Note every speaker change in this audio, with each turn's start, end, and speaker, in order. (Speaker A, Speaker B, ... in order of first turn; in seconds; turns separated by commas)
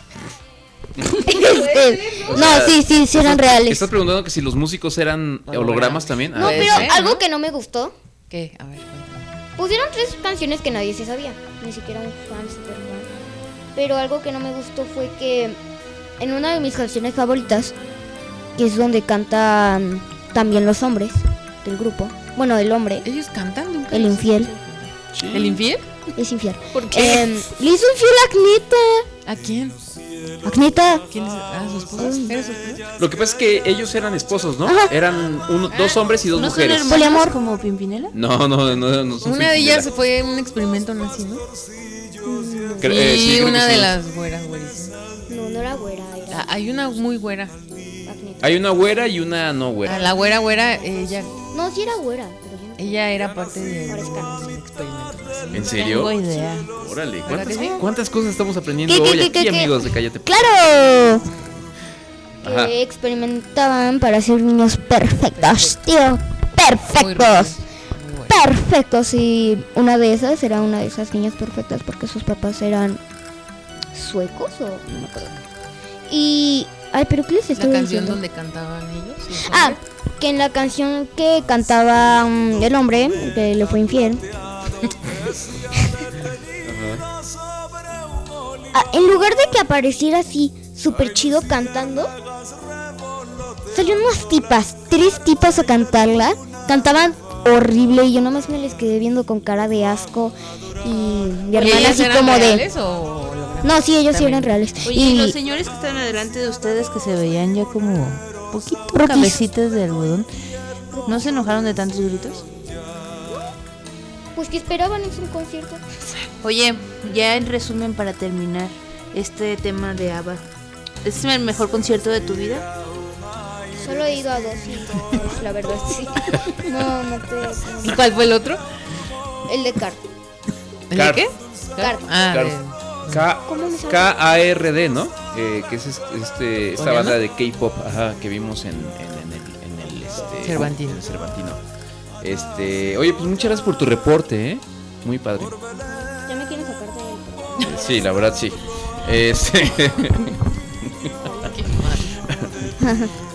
Speaker A: 1.1-3.9, Speaker B: 1.8-2.2, Speaker C: 2.2-6.9, Speaker B: 5.5-7.2, Speaker A: 6.3-7.9, Speaker B: 8.3-9.2, Speaker A: 9.6-13.1, Speaker A: 13.7-15.6, Speaker A: 16.2-17.7, Speaker A: 18.6-23.1, Speaker B: 23.0-25.9, Speaker A: 23.9-24.5, Speaker C: 25.1-25.6, Speaker A: 26.1-29.1, Speaker B: 26.7-27.2, Speaker B: 29.2-29.8, Speaker A: 30.4-31.0, Speaker B: 31.1-32.8, Speaker A: 32.0-32.4, Speaker C: 33.0-37.0, Speaker A: 34.6-34.9, Speaker D: 36.3-38.1, Speaker A: 36.8-37.4, Speaker C: 38.1-39.9, Speaker B: 39.2-41.4, Speaker A: 42.2-43.1, Speaker C: 42.8-43.9, Speaker B: 42.8-45.0, Speaker A: 45.3-46.5, Speaker B: 46.3-47.5, Speaker A: 48.0-48.5, Speaker C: 48.4-50.1, Speaker B: 49.8-51.3, Speaker A: 51.5-53.0, Speaker B: 52.8-55.7, Speaker A: 53.9-54.3, Speaker C: 55.5-56.2, Speaker D: 55.6-56.7, Speaker C: 56.7-60.5, Speaker B: 57.2-57.8, Speaker A: 58.8-61.2, Speaker C: 62.4-62.7, Speaker A: 62.4-67.6, Speaker B: 65.4-65.7, Speaker B: 66.9-68.4, Speaker A: 68.3-73.0, Speaker A: 73.9-75.3, Speaker A: 76.1-78.2, Speaker B: 77.5-79.8, Speaker A: 79.4-84.3, Speaker C: 86.6-87.0, Speaker A: 88.7-92.1, Speaker A: 93.7-102.6, Speaker B: 101.5-104.6, Speaker A: 103.6-105.3, Speaker D: 104.8-110.3, Speaker A: 108.9-109.4, Speaker A: 110.9-111.3, Speaker D: 111.0-112.4, Speaker A: 114.3-116.0, Speaker D: 116.4-120.4, Speaker D: 121.0-122.7, Speaker A: 123.7-128.0, Speaker B: 127.8-128.6, Speaker A: 129.5-130.0, Speaker B: 130.9-133.2, Speaker C: 130.9-131.2, Speaker C: 132.3-132.5, Speaker C: 133.1-141.6, Speaker A: 133.4-134.1, Speaker B: 136.8-137.2, Speaker B: 140.4-141.0, Speaker C: 142.2-145.6, Speaker A: 145.9-147.9, Speaker C: 147.6-151.1, Speaker B: 151.4-152.1, Speaker A: 152.8-153.1